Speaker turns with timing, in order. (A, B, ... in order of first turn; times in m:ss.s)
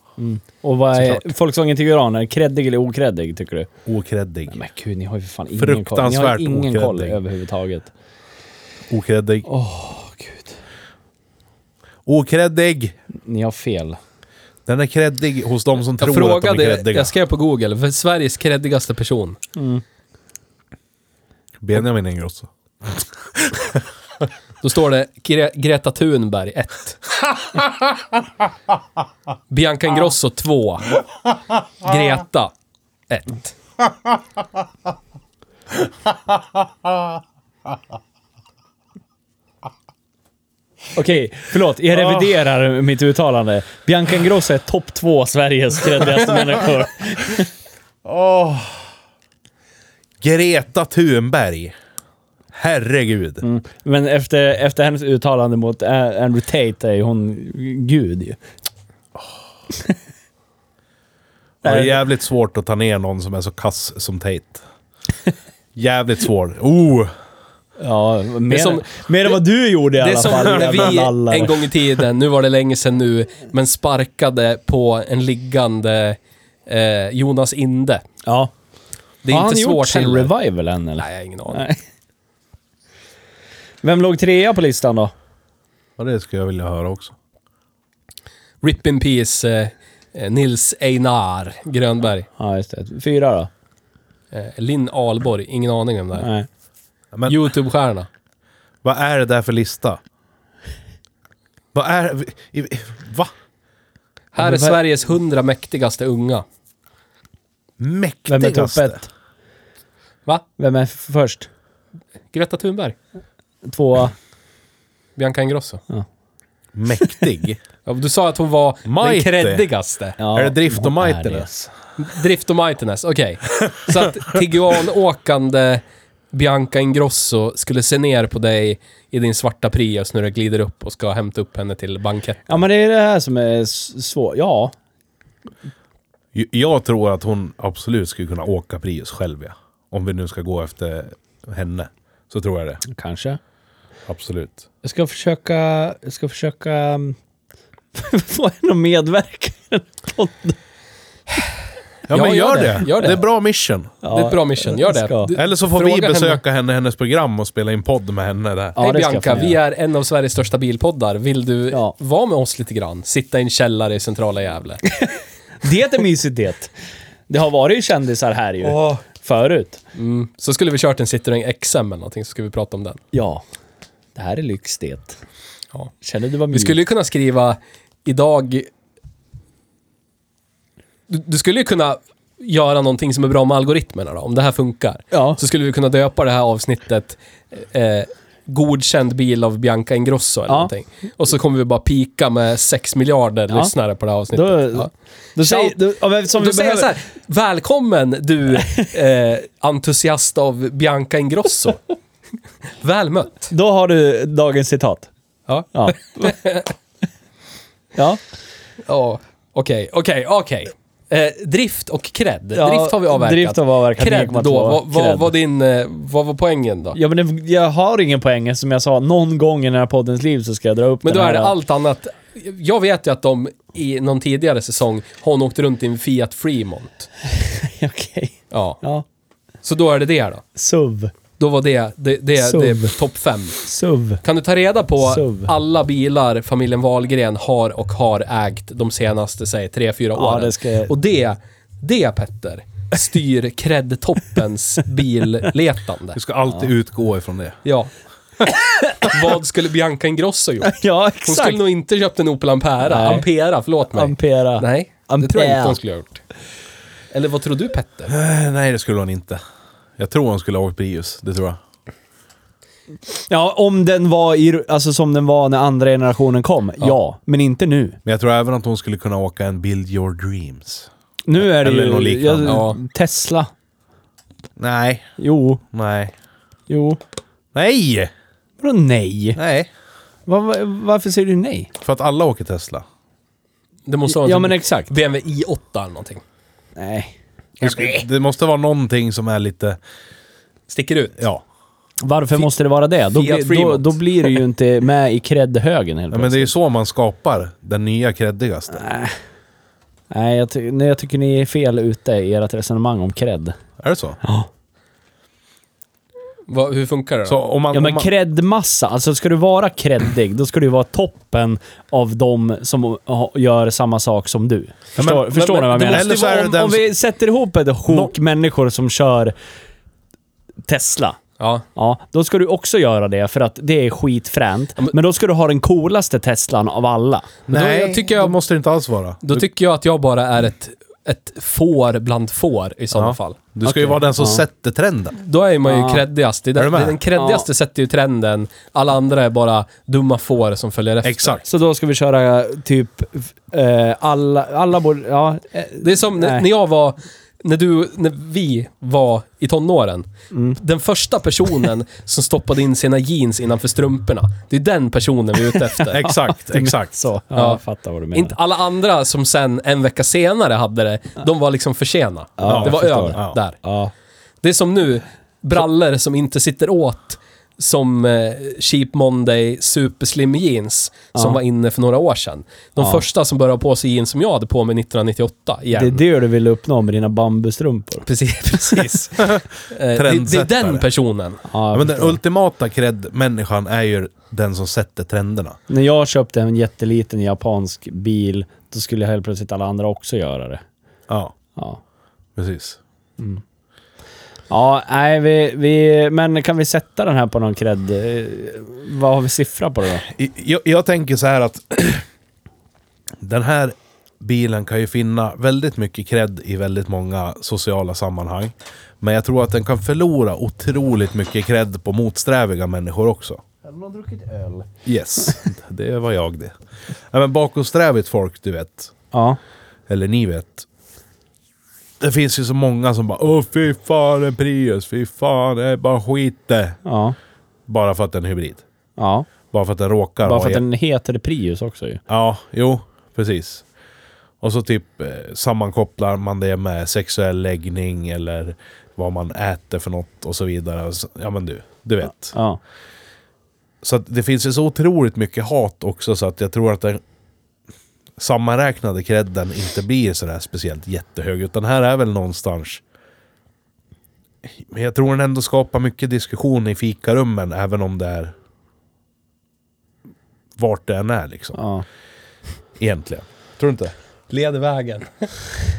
0:00.2-0:03.7 A
0:01.0-0:01.2 B
0:03.8-0:04.6 B
0:04.5-0:07.9 A
0:05.5-0:07.2 B
0:08.9-0:09.5 B
0:09.4-0:10.6 A
0:12.0-0:13.0 B
0:13.2-0:14.0 A
0:14.6-0:17.1 B
0:16.0-0:19.4 C
0:19.6-0:19.8 A
0:21.6-0:23.8 B
0:24.6-0:27.1 C
0:29.5-0:31.0 C
0:31.8-0:32.5 C
0:33.1-0:33.5 C
0:40.9-0:47.5 A
0:41.9-0:42.3 B
0:48.0-0:48.9 B
0:50.2-0:51.7 B
0:52.5-0:53.4 B
0:53.4-0:58.4 A
1:01.6-1:04.6 B
1:01.6-1:02.0 A
1:05.7-1:07.1 B
1:07.8-1:11.7 A
1:08.5-1:09.4 C
1:10.0-1:18.0 C
1:18.2-1:18.5 A
1:19.2-1:20.3 C
1:19.3-1:21.8 A
1:21.0-1:21.6 C
1:23.8-1:25.1 A
1:26.0-1:27.1 B
1:28.6-1:32.3 C
1:32.4-1:33.5 A
1:34.3-1:36.3 C
1:36.2-1:36.5 A
1:37.1-1:37.4 B
1:37.3-1:38.1 C
1:38.8-1:40.0 B
1:41.7-1:43.3 B
1:44.3-1:46.4 C
1:44.4-1:44.8 A
1:47.8-1:49.0 B
1:48.3-1:49.1 A
1:50.6-1:51.5 A
1:52.3-1:53.0 C
1:53.6-1:54.1 A
1:55.2-1:55.8 C
1:56.7-1:57.6 B
1:57.8-2:00.2 C
1:58.8-1:59.6 B
2:00.2-2:01.5 A
2:00.3-2:01.7 B
2:02.0-2:12.6 C
2:12.5-2:14.7 A
2:16.3-2:22.8 B
2:22.8-2:23.4 A
2:24.1-2:24.6 B
2:24.8-2:27.2 A
2:27.9-2:30.6 A
2:32.1-2:33.9 B
2:32.1-2:33.2 C
2:34.0-2:35.3 A
2:34.1-2:36.4 C
2:35.3-2:38.8 B
2:38.8-2:39.6 A
2:38.8-2:44.8 C
2:45.6-2:46.7 A
2:47.3-2:49.8 A
2:48.6-2:49.0 C
2:49.9-2:53.0 C
2:53.1-2:53.4 A
2:54.1-2:55.2 A
2:56.0-2:56.8 A
2:56.5-2:58.7 C
3:01.1-3:21.8 C
3:05.1-3:05.4 A
3:14.3-3:16.9 A
3:22.8-3:23.5 C
3:23.5-3:25.1 A
3:25.5-3:26.7 C
3:25.7-3:26.3 A
3:27.9-3:28.2 A
3:28.8-3:37.0 C
3:32.5-3:35.3 A
3:36.9-3:41.5 A
3:41.0-3:47.1 C
3:47.4-3:49.0 A
3:48.5-3:48.8 C
3:49.6-3:50.4 C
3:50.6-3:51.1 A
3:51.4-3:53.6 C
3:52.4-3:53.0 A
3:53.6-3:54.2 A
3:54.2-4:06.2 C
3:55.0-3:55.5 A
4:00.1-4:00.9 A
4:06.1-4:07.6 B
4:07.6-4:07.9 C
4:09.0-4:16.2 C
4:10.6-4:11.6 A
4:12.8-4:13.2 A
4:13.9-4:15.8 A
4:17.1-4:18.1 C
4:18.1-4:19.4 B
4:20.0-4:21.6 B
4:23.3-4:28.0 A
4:28.0-4:32.6 B
4:31.2-4:33.5 A
4:32.4-4:32.8 C
4:34.6-4:35.1 B
4:35.2-4:35.6 A
4:35.7-4:36.1 B
4:36.7-4:37.0 A
4:37.5-4:38.1 B
4:38.6-4:39.4 A
4:39.4-4:39.7 B
4:40.3-4:41.7 A
4:41.8-4:42.8 B
4:43.8-4:46.2 C
4:44.0-4:44.9 A
4:46.8-4:47.1 A
4:47.6-4:49.8 B
4:47.6-4:47.9 C
4:50.7-4:51.2 C
4:51.2-4:51.4 B
4:52.0-4:56.5 A
4:53.1-4:54.4 C
4:56.1-4:58.8 B
4:58.8-4:59.1 A
5:00.1-5:03.6 A
5:03.8-5:04.2 B
5:04.2-5:04.5 A
5:06.5-5:07.4 C
5:07.2-5:08.1 B
5:07.7-5:19.3 A
5:15.0-5:16.8 B
5:15.3-5:16.5 C
5:17.9-5:18.1 B
5:20.7-5:21.2 A
5:21.4-5:21.6 C
5:21.7-5:27.3 A
5:27.5-5:29.5 B
5:27.5-5:28.4 C
5:29.2-5:33.4 C
5:32.9-5:35.2 B
5:33.6-5:34.4 A
5:35.2-5:41.4 C
5:35.6-5:36.0 A
5:36.6-5:37.0 B
5:37.1-5:37.4 A
5:41.0-5:41.4 B
5:41.5-5:46.4 A
5:45.8-5:56.0 C
5:50.3-5:50.6 A
5:55.9-5:57.0 B
5:56.0-5:58.3 A
5:57.3-5:57.6 C
5:58.1-6:03.6 C
6:02.4-6:03.9 A
6:02.4-6:03.4 B
6:04.4-6:16.0 C
6:11.1-6:11.4 A
6:12.8-6:13.0 A
6:15.7-6:18.0 A
6:18.0-6:21.4 C
6:19.9-6:20.8 B
6:21.5-6:22.2 A
6:21.7-6:25.6 B
6:25.7-6:30.6 A
6:31.1-6:31.3 B
6:32.4-6:32.8 B
6:34.5-6:40.0 A
6:40.0-6:42.0 B
6:43.2-6:53.4 B
6:53.6-6:54.7 A
6:54.8-6:56.5 B
6:57.1-6:58.9 B
6:59.1-6:59.4 A
6:59.9-7:00.6 B
7:02.0-7:06.8 B
7:06.8-7:07.2 A
7:07.7-7:08.6 B
7:09.0-7:09.3 A
7:09.5-7:10.6 B
7:10.2-7:12.0 A
7:12.1-7:13.6 B
7:14.4-7:22.4 B
7:22.3-7:22.6 A
7:23.8-7:27.0 B
7:28.2-7:32.8 B
7:34.7-7:38.3 B
7:40.6-7:41.6 B
7:41.5-7:41.8 A
7:42.8-7:43.9 B
7:44.3-7:45.6 C